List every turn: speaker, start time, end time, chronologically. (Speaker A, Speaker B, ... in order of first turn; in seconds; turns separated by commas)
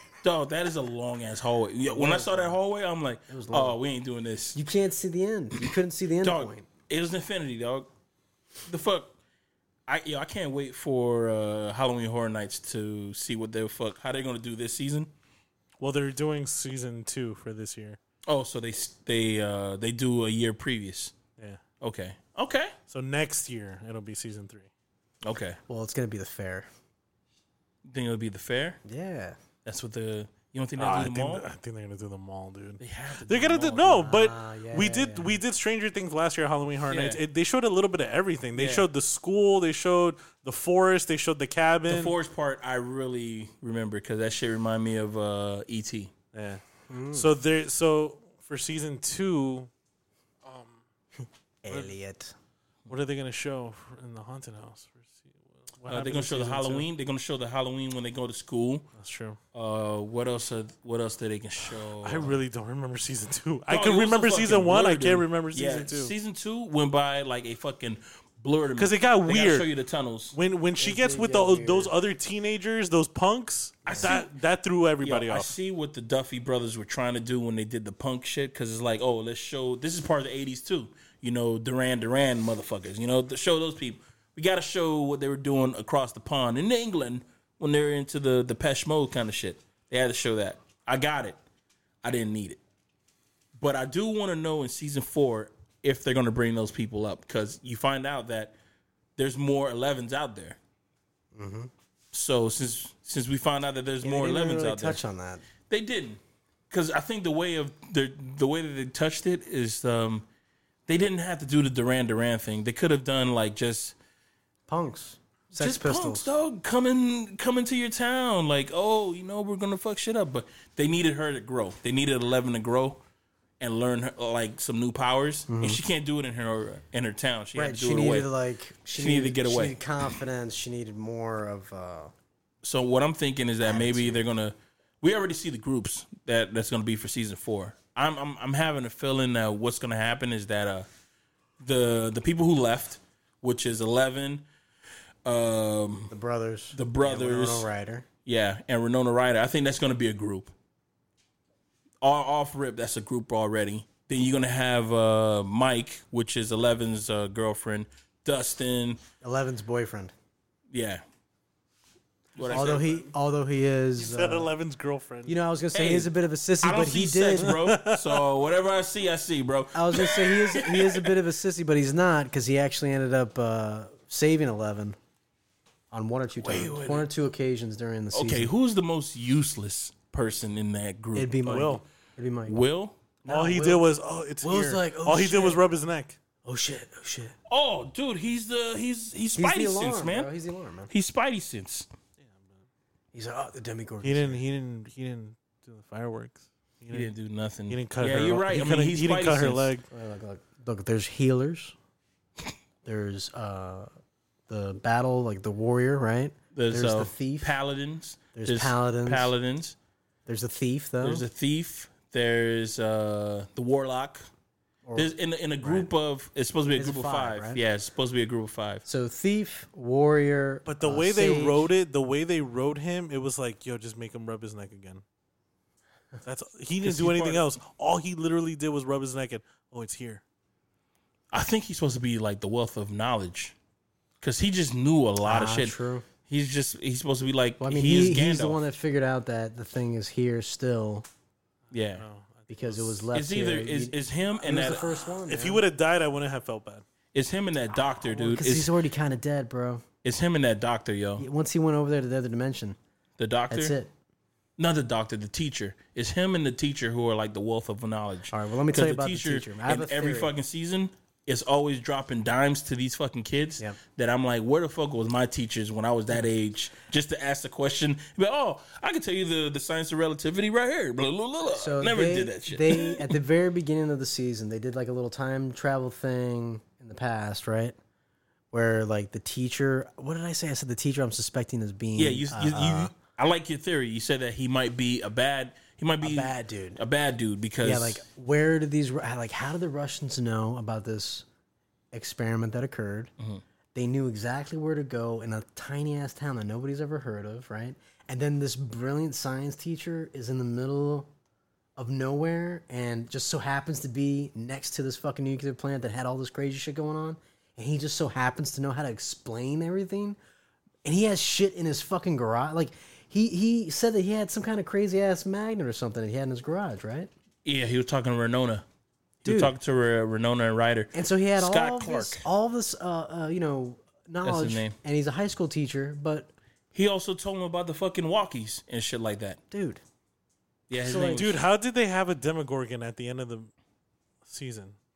Speaker A: 0.2-4.6, Speaker B: 1.9-2.6, Speaker B: 3.3-3.8, Speaker B: 4.5-6.7, Speaker A: 6.2-7.9, Speaker A: 8.7-9.1, Speaker A: 9.9-15.1, Speaker C: 15.8-18.0, Speaker A: 18.2-21.1, Speaker A: 21.8-22.8, Speaker C: 22.9-24.7, Speaker A: 25.2-25.6, Speaker B: 25.7-26.7, Speaker A: 27.8-28.8, Speaker B: 28.8-29.4, Speaker A: 29.6-31.4, Speaker C: 30.8-42.1, Speaker A: 32.8-34.1, Speaker B: 34.0-35.4, Speaker A: 36.9-37.2, Speaker A: 38.5-38.9, Speaker A: 41.9-46.1, Speaker C: 46.3-49.7, Speaker B: 46.9-47.3, Speaker C: 50.4-50.8, Speaker B: 51.6-52.3, Speaker C: 52.9-56.9, Speaker A: 55.9-58.9, Speaker C: 58.9-59.4, Speaker A: 59.5-62.4, Speaker C: 62.0-66.1, Speaker A: 63.7-70.3, Speaker C: 68.8-69.7, Speaker C: 70.3-75.5, Speaker B: 70.8-71.9, Speaker A: 73.8-74.3, Speaker A: 75.0-91.4, Speaker A: 92.0-92.6, Speaker A: 93.5-98.5, Speaker A: 99.2-100.6, Speaker B: 101.3-101.7, Speaker A: 102.1-105.0, Speaker B: 104.0-105.4, Speaker A: 105.7-110.2, Speaker A: 110.9-113.9, Speaker B: 114.7-116.3, Speaker A: 115.6-123.0, Speaker A: 123.6-128.3, Speaker B: 125.5-125.8, Speaker B: 127.5-132.1, Speaker A: 128.9-129.8, Speaker A: 132.6-140.9, Speaker B: 133.6-134.2, Speaker A: 141.6-144.4, Speaker A: 145.2-146.1, Speaker B: 146.1-148.1, Speaker A: 146.7-147.7, Speaker A: 148.2-150.5, Speaker A: 152.0-159.0, Speaker B: 159.2-160.1, Speaker A: 160.7-161.0, Speaker A: 162.3-163.0, Speaker C: 162.4-162.9, Speaker B: 162.5-164.5, Speaker C: 163.9-165.4, Speaker B: 165.3-167.6, Speaker A: 165.7-166.1, Speaker A: 166.6-171.1, Speaker C: 167.4-168.0, Speaker B: 169.7-175.0, Speaker B: 175.9-178.5, Speaker A: 176.4-177.1, Speaker A: 178.1-181.7, Speaker B: 181.1-182.6, Speaker C: 181.5-181.8, Speaker A: 182.5-183.0, Speaker B: 183.2-183.8, Speaker C: 183.3-186.2, Speaker B: 184.4-185.6, Speaker B: 186.4-187.3, Speaker A: 187.5-190.3, Speaker B: 189.3-190.9, Speaker A: 190.9-191.9, Speaker C: 192.2-192.6, Speaker B: 193.1-194.4, Speaker C: 194.0-197.1, Speaker A: 196.9-199.7, Speaker C: 197.7-199.8, Speaker B: 199.9-201.7, Speaker B: 202.8-203.9, Speaker B: 204.5-207.5, Speaker A: 206.5-209.8, Speaker B: 208.3-209.3, Speaker B: 210.2-211.2, Speaker A: 211.0-214.2, Speaker B: 214.8-215.9, Speaker A: 214.9-218.8, Speaker B: 216.7-217.6, Speaker B: 218.8-221.7, Speaker C: 220.6-225.0, Speaker C: 226.2-230.2, Speaker A: 226.8-227.4, Speaker A: 231.3-233.5, Speaker A: 234.2-238.6, Speaker B: 235.2-236.1, Speaker B: 237.6-241.1, Speaker A: 241.7-242.0, Speaker C: 241.9-243.0, Speaker B: 242.5-245.6, Speaker A: 243.1-245.0, Speaker C: 245.2-246.8, Speaker A: 247.1-248.7, Speaker B: 248.0-249.8, Speaker A: 250.0-251.2, Speaker B: 251.2-252.8, Speaker A: 253.2-253.8, Speaker B: 253.5-253.9, Speaker A: 254.6-273.1, Speaker B: 258.3-260.3, Speaker B: 271.5-277.8, Speaker B: 278.5-282.9, Speaker A: 281.9-288.0, Speaker B: 286.0-286.8, Speaker B: 287.6-291.2, Speaker B: 291.9-293.1, Speaker B: 293.7-301.1, Speaker B: 301.8-310.2, Speaker B: 310.8-317.1, Speaker A: 317.4-318.6, Speaker B: 319.2-319.5, Speaker A: 319.2-322.2, Speaker B: 320.9-326.3, Speaker A: 324.2-324.8, Speaker A: 326.7-329.4, Speaker B: 329.5-329.8, Speaker A: 330.7-331.4, Speaker B: 330.8-331.3, Speaker C: 331.0-333.5, Speaker C: 334.2-334.8